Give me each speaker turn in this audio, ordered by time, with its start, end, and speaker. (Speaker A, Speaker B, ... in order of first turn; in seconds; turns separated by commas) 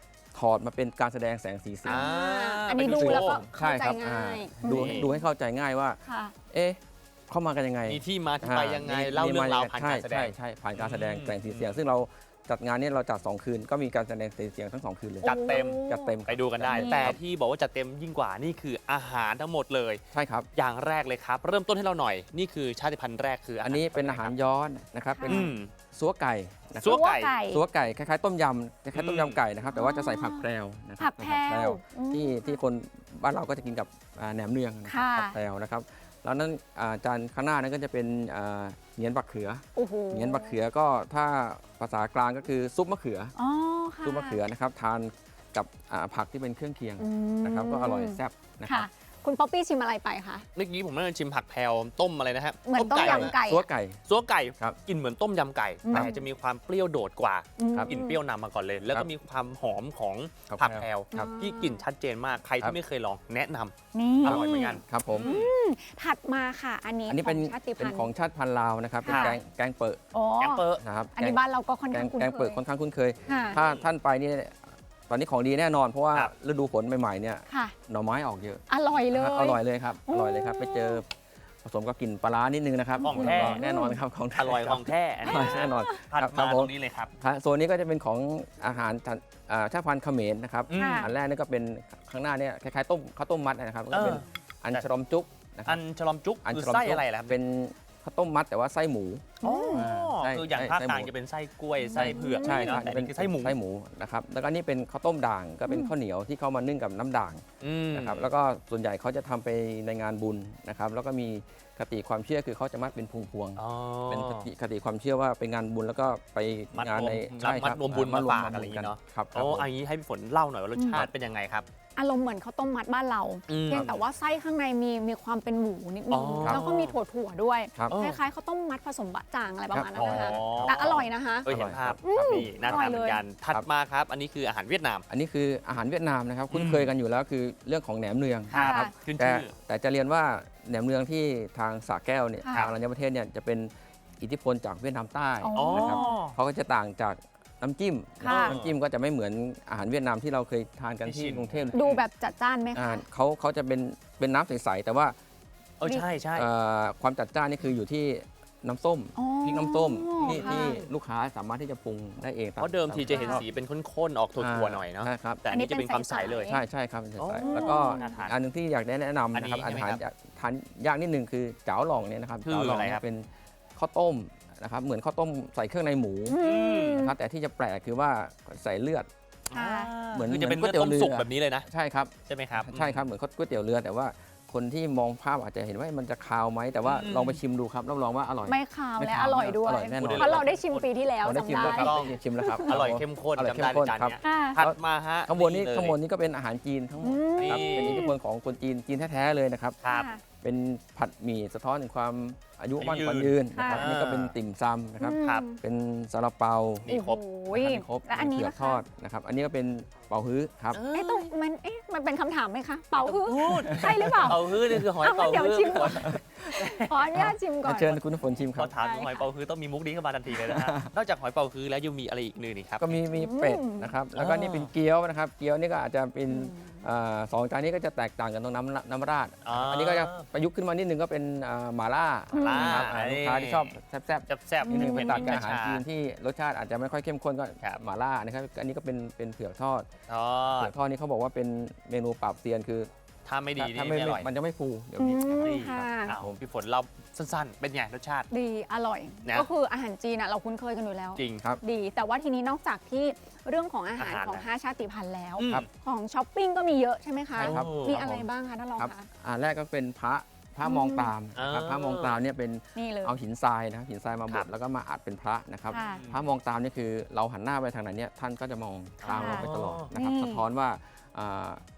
Speaker A: 0.3-2.1, Speaker B: 1.9-3.4, Speaker C: 1.9-5.2, Speaker A: 2.9-6.0, Speaker B: 4.6-5.1, Speaker C: 6.0-6.3, Speaker A: 6.5-17.2, Speaker B: 7.9-11.8, Speaker B: 15.2-20.0, Speaker C: 15.2-17.2, Speaker A: 20.1-20.5, Speaker B: 20.5-24.4, Speaker A: 23.6-43.4, Speaker C: 25.1-25.5, Speaker B: 25.3-25.7, Speaker B: 26.8-27.4, Speaker C: 26.9-27.6, Speaker B: 28.9-29.4, Speaker C: 29.7-30.5, Speaker C: 31.0-32.6, Speaker C: 34.9-35.4, Speaker C: 39.8-40.6, Speaker C: 43.4-44.4, Speaker A: 44.0-48.9, Speaker C: 47.0-50.5, Speaker B: 50.5-53.4, Speaker C: 52.6-53.7, Speaker A: 52.8-54.0, Speaker B: 54.1-65.5, Speaker C: 55.8-56.2, Speaker C: 57.6-58.2, Speaker A: 60.5-61.3, Speaker C: 61.1-61.8, Speaker C: 63.9-68.1, Speaker A: 64.2-65.4, Speaker A: 67.1-70.0, Speaker C: 69.0-69.4, Speaker B: 69.1-69.4, Speaker C: 70.1-72.6, Speaker B: 70.4-70.8, Speaker A: 70.8-81.1, Speaker C: 73.3-73.6, Speaker B: 73.5-73.9, Speaker C: 77.5-77.8, Speaker C: 78.7-81.0, Speaker A: 81.6-95.8, Speaker C: 83.0-84.0, Speaker B: 83.0-83.6, Speaker B: 84.3-87.1, Speaker C: 85.2-86.0, Speaker B: 90.7-91.1, Speaker C: 90.7-91.1, Speaker B: 93.9-94.9, Speaker B: 95.7-97.4, Speaker A: 96.4-101.1, Speaker C: 99.4-99.8, Speaker B: 99.4-103.6, Speaker C: 101.8-102.8, Speaker A: 101.9-119.7, Speaker C: 105.7-105.9, Speaker B: 107.6-108.3, Speaker B: 113.6-114.5, Speaker B: 116.7-121.7, Speaker C: 120.8-121.1, Speaker C: 122.0-131.5, Speaker B: 123.5-124.0, Speaker B: 126.1-127.0, Speaker B: 127.9-128.2, Speaker A: 129.7-132.9, Speaker B: 129.9-135.0, Speaker C: 132.0-133.2, Speaker A: 135.1-151.8, Speaker B: 136.5-136.9, Speaker B: 138.5-139.5, Speaker C: 138.5-138.9, Speaker C: 142.4-142.7, Speaker C: 145.4-146.2, Speaker B: 145.6-146.4, Speaker C: 148.2-148.6, Speaker B: 148.2-148.8, Speaker B: 151.0-152.0, Speaker C: 151.7-153.0, Speaker A: 152.7-155.2, Speaker B: 155.8-156.5, Speaker A: 156.3-163.5, Speaker C: 159.2-160.9, Speaker B: 160.2-160.8, Speaker B: 162.6-166.5, Speaker C: 163.1-163.4, Speaker A: 164.4-165.4, Speaker C: 165.5-166.6, Speaker A: 166.5-179.1, Speaker B: 167.2-168.3, Speaker C: 167.4-168.2, Speaker B: 169.3-170.0, Speaker B: 172.4-173.0, Speaker C: 176.3-177.1, Speaker B: 176.4-177.0, Speaker B: 179.5-181.7, Speaker C: 179.5-179.9, Speaker A: 180.1-190.4, Speaker B: 182.3-183.1, Speaker B: 186.8-187.4, Speaker C: 188.5-192.8, Speaker B: 189.8-190.9, Speaker A: 191.2-199.8, Speaker B: 191.5-192.2, Speaker B: 192.7-196.0, Speaker C: 194.2-194.6, Speaker C: 197.0-198.1, Speaker B: 197.4-198.1, Speaker B: 199.8-200.1, Speaker C: 199.9-200.2, Speaker A: 200.4-206.9, Speaker B: 202.8-204.3, Speaker C: 203.5-203.9, Speaker C: 205.0-205.6, Speaker B: 205.2-205.5, Speaker B: 206.8-207.2, Speaker C: 206.9-208.8, Speaker A: 207.5-210.8, Speaker B: 210.7-211.3, Speaker C: 210.9-218.0, Speaker B: 212.9-217.2, Speaker A: 213.8-214.4, Speaker A: 215.8-218.8, Speaker B: 218.6-222.9, Speaker C: 218.8-219.3, Speaker A: 220.4-220.9, Speaker A: 222.8-239.9, Speaker C: 223.1-224.0, Speaker B: 224.1-224.7, Speaker C: 226.3-226.8, Speaker B: 229.4-230.3, Speaker C: 232.3-232.9, Speaker B: 232.3-233.8, Speaker B: 234.3-235.8, Speaker C: 234.6-235.4, Speaker B: 240.1-240.7, Speaker A: 240.6-242.9, Speaker B: 243.2-244.3, Speaker A: 243.6-246.4, Speaker C: 245.0-246.2, Speaker B: 245.4-248.3, Speaker C: 248.3-259.1, Speaker B: 249.2-249.5, Speaker B: 251.2-251.4, Speaker B: 254.0-254.5, Speaker B: 255.4-255.7, Speaker B: 257.4-258.2, Speaker A: 257.4-258.0, Speaker A: 258.8-271.6, Speaker C: 260.6-261.1, Speaker B: 261.4-262.2, Speaker C: 262.8-263.1, Speaker C: 265.7-266.0, Speaker B: 265.8-266.3, Speaker B: 269.0-269.9, Speaker C: 269.1-270.4